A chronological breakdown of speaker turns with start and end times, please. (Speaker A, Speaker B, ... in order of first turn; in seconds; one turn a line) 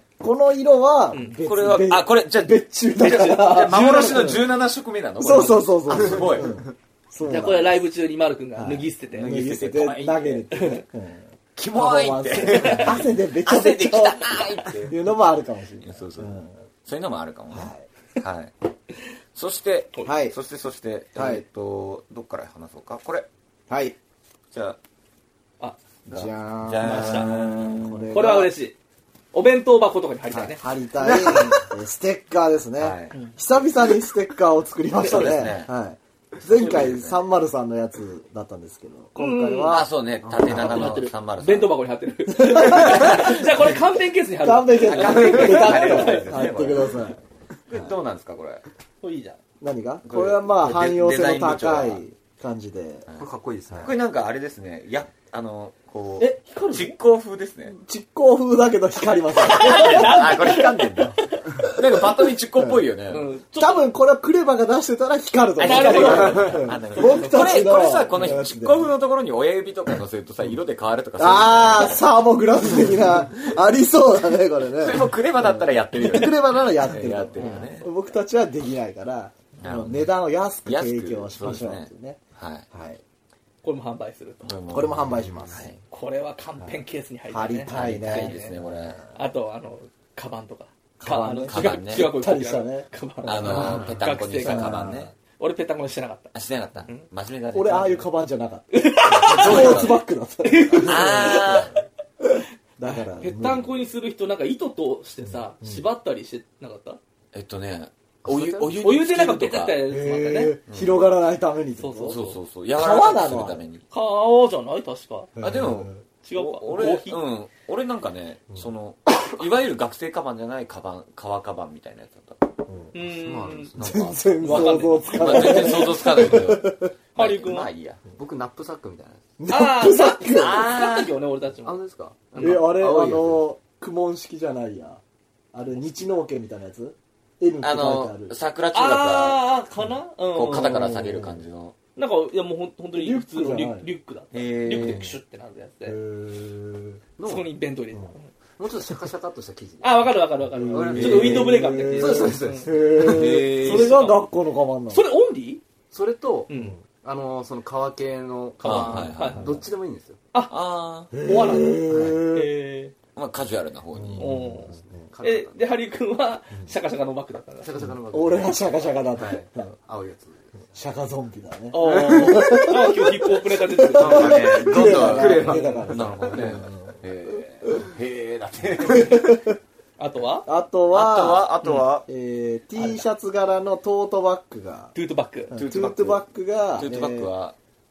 Speaker A: 0.2-4.4
Speaker B: 1.1-1.4
Speaker C: 1.4-6.6
Speaker B: 3.0-4.4
Speaker A: 5.2-7.8
Speaker B: 7.2-9.5
Speaker A: 8.6-16.5
Speaker C: 9.1-10.5
Speaker B: 10.5-10.8
Speaker C: 11.6-15.0
Speaker B: 12.6-13.0
Speaker C: 15.8-18.5
Speaker A: 17.5-17.9
Speaker C: 19.4-23.3
Speaker A: 20.1-20.4
Speaker A: 21.2-21.4
Speaker A: 23.7-24.0
Speaker C: 24.5-24.8
Speaker C: 26.1-28.1
Speaker A: 26.1-28.5
Speaker B: 26.8-27.3
Speaker B: 28.1-28.8
Speaker B: 29.3-30.6
Speaker A: 30.3-41.1
Speaker C: 31.0-31.7
Speaker C: 32.8-33.1
Speaker C: 35.0-35.7
Speaker C: 36.5-37.2
Speaker B: 39.2-39.8
Speaker C: 39.7-41.7
Speaker B: 40.5-46.5
Speaker A: 42.3-43.7
Speaker C: 42.8-43.4
Speaker A: 44.4-47.2
Speaker C: 44.8-47.1
Speaker C: 47.7-48.6
Speaker B: 49.0-49.4
Speaker A: 49.6-53.1
Speaker C: 50.0-52.0
Speaker C: 53.1-57.8
Speaker D: 53.2-53.9
Speaker B: 56.2-57.0
Speaker A: 57.7-60.3
Speaker B: 59.4-61.7
Speaker C: 59.4-63.3
Speaker B: 63.1-63.9
Speaker A: 63.5-68.9
Speaker C: 65.6-72.1
Speaker B: 65.6-67.7
Speaker D: 66.0-66.7
Speaker A: 71.2-82.2
Speaker C: 72.6-73.5
Speaker C: 74.8-77.9
Speaker C: 79.6-80.1
Speaker C: 80.7-82.7
Speaker A: 82.7-83.0
Speaker B: 83.6-84.5
Speaker C: 84.5-85.8
Speaker A: 84.7-85.7
Speaker B: 85.9-88.6
Speaker A: 87.3-89.0
Speaker C: 87.7-89.0
Speaker B: 89.1-94.9
Speaker A: 91.0-92.9
Speaker C: 91.5-92.1
Speaker C: 93.3-95.1
Speaker A: 93.5-93.9
Speaker A: 94.4-95.1
Speaker B: 95.4-96.3
Speaker C: 96.3-98.1
Speaker A: 97.5-98.7
Speaker B: 98.7-101.8
Speaker C: 99.1-100.0
Speaker A: 99.3-101.7
Speaker C: 100.8-101.7
Speaker A: 102.8-103.7
Speaker B: 102.9-107.0
Speaker A: 105.3-105.9
Speaker C: 107.3-109.8
Speaker D: 108.3-108.7
Speaker B: 108.7-110.6
Speaker A: 109.9-112.2
Speaker C: 110.7-111.0
Speaker B: 111.8-112.4
Speaker C: 112.1-113.8
Speaker A: 112.7-113.6
Speaker B: 113.9-115.3
Speaker A: 115.4-116.0
Speaker C: 115.4-122.5
Speaker B: 116.2-117.2
Speaker B: 122.9-123.7
Speaker D: 123.0-124.8
Speaker A: 123.8-126.9
Speaker B: 124.4-125.9
Speaker C: 125.1-128.0
Speaker B: 127.2-127.7
Speaker D: 128.2-129.3
Speaker A: 129.4-130.7
Speaker B: 129.5-131.8
Speaker C: 130.3-131.1
Speaker D: 131.6-133.4
Speaker B: 132.3-132.7
Speaker A: 132.4-135.0
Speaker A: 135.5-138.4
Speaker C: 137.6-139.4
Speaker B: 138.7-141.1
Speaker C: 140.3-141.8
Speaker A: 140.5-141.4
Speaker B: 142.0-146.0
Speaker A: 142.9-143.9
Speaker C: 144.3-145.1
Speaker A: 144.8-145.1
Speaker A: 145.8-147.0
Speaker D: 147.2-147.5
Speaker B: 147.2-148.3
Speaker D: 148.6-150.2
Speaker B: 149.8-152.8
Speaker A: 150.5-155.1
Speaker D: 150.7-153.5
Speaker C: 150.9-151.5
Speaker C: 153.0-154.0
Speaker B: 153.6-154.3
Speaker B: 154.9-155.6
Speaker D: 155.9-156.5
Speaker B: 156.5-156.8
Speaker D: 157.0-160.2
Speaker B: 158.6-159.6
Speaker C: 158.6-159.6
Speaker A: 159.2-159.6
Speaker C: 160.5-161.1
Speaker A: 161.1-162.5
Speaker B: 161.2-162.9
Speaker C: 163.2-164.6
Speaker A: 163.9-165.1
Speaker B: 164.2-167.7
Speaker D: 164.7-165.6
Speaker D: 167.6-168.6
Speaker A: 168.1-169.7
Speaker D: 169.2-170.5
Speaker A: 170.7-177.0
Speaker B: 171.7-174.3
Speaker C: 173.9-179.3
Speaker D: 174.0-176.6
Speaker B: 175.4-175.9
Speaker A: 178.8-179.6
Speaker B: 180.0-180.5
Speaker A: 180.5-181.5
Speaker C: 180.9-182.1
Speaker A: 182.1-184.9
Speaker B: 184.9-185.6
Speaker A: 185.5-187.3
Speaker C: 185.5-186.2
Speaker C: 186.8-187.6